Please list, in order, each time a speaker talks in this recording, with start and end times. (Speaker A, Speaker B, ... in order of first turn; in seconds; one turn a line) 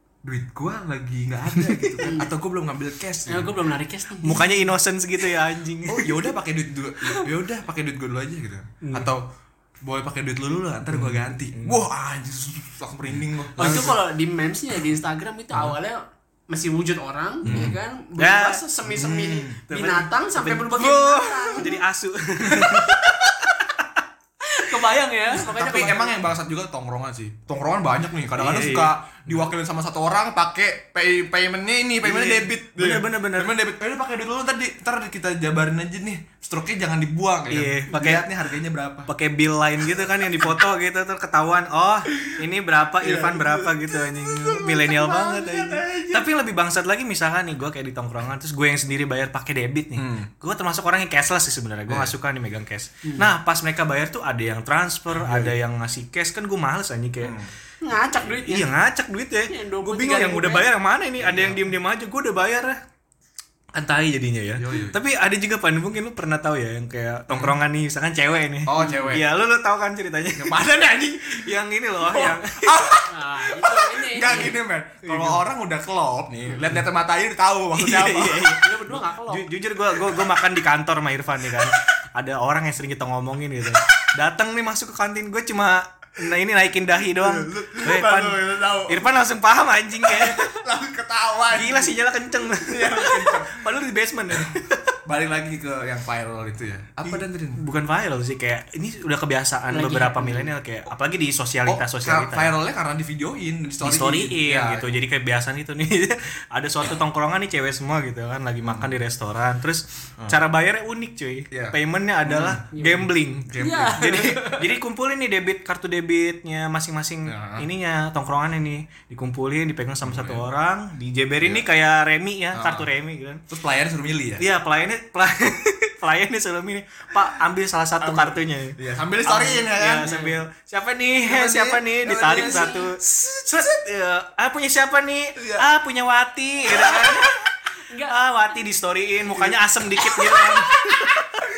Speaker A: 0.2-3.6
Speaker B: 1.6-2.0
Speaker C: 2.0-2.3
Speaker C: 3.2-4.5
Speaker B: 4.2-6.3
Speaker A: 5.8-9.2
Speaker C: 8.8-9.1
Speaker A: 9.8-13.9
Speaker B: 10.9-11.8
Speaker B: 13.6-14.0
Speaker C: 13.6-21.8
Speaker A: 17.4-17.8
Speaker B: 17.4-19.1
Speaker A: 18.9-19.6
Speaker B: 19.7-24.0
Speaker C: 24.4-26.2
Speaker A: 25.4-39.1
Speaker B: 28.4-28.9
Speaker B: 32.0-33.5
Speaker B: 37.5-38.3
Speaker B: 39.1-57.4
Speaker A: 43.0-46.3
Speaker A: 50.0-50.3
Speaker A: 51.9-52.1
Speaker C: 53.0-53.3
Speaker A: 55.1-55.5
Speaker A: 57.2-57.5
Speaker C: 57.8-58.7
Speaker B: 58.2-62.8
Speaker C: 59.5-60.7
Speaker A: 61.2-61.6
Speaker B: 63.7-72.8
Speaker A: 64.6-65.0
Speaker A: 67.3-67.6
Speaker A: 68.7-69.2
Speaker A: 70.3-71.5
Speaker A: 72.1-78.5
Speaker C: 73.1-74.5
Speaker B: 75.0-75.4
Speaker B: 77.7-90.6
Speaker C: 78.6-79.5
Speaker A: 87.2-89.0
Speaker A: 90.0-91.9
Speaker B: 91.5-95.0
Speaker A: 92.7-93.7
Speaker A: 95.0-97.6
Speaker B: 97.1-102.5
Speaker C: 99.7-100.5
Speaker A: 101.7-105.0
Speaker B: 103.8-123.4
Speaker A: 108.6-108.9
Speaker A: 111.5-112.6
Speaker C: 112.7-114.7
Speaker A: 113.5-114.2
Speaker A: 117.3-117.7
Speaker A: 120.0-120.5
Speaker A: 121.4-121.7
Speaker A: 122.5-122.9
Speaker A: 123.5-124.5
Speaker B: 124.4-137.5
Speaker A: 128.0-130.3
Speaker C: 130.0-130.3
Speaker A: 131.2-133.2
Speaker C: 132.2-132.9
Speaker A: 135.3-135.7
Speaker C: 137.7-138.2
Speaker B: 138.1-141.3
Speaker C: 140.3-141.0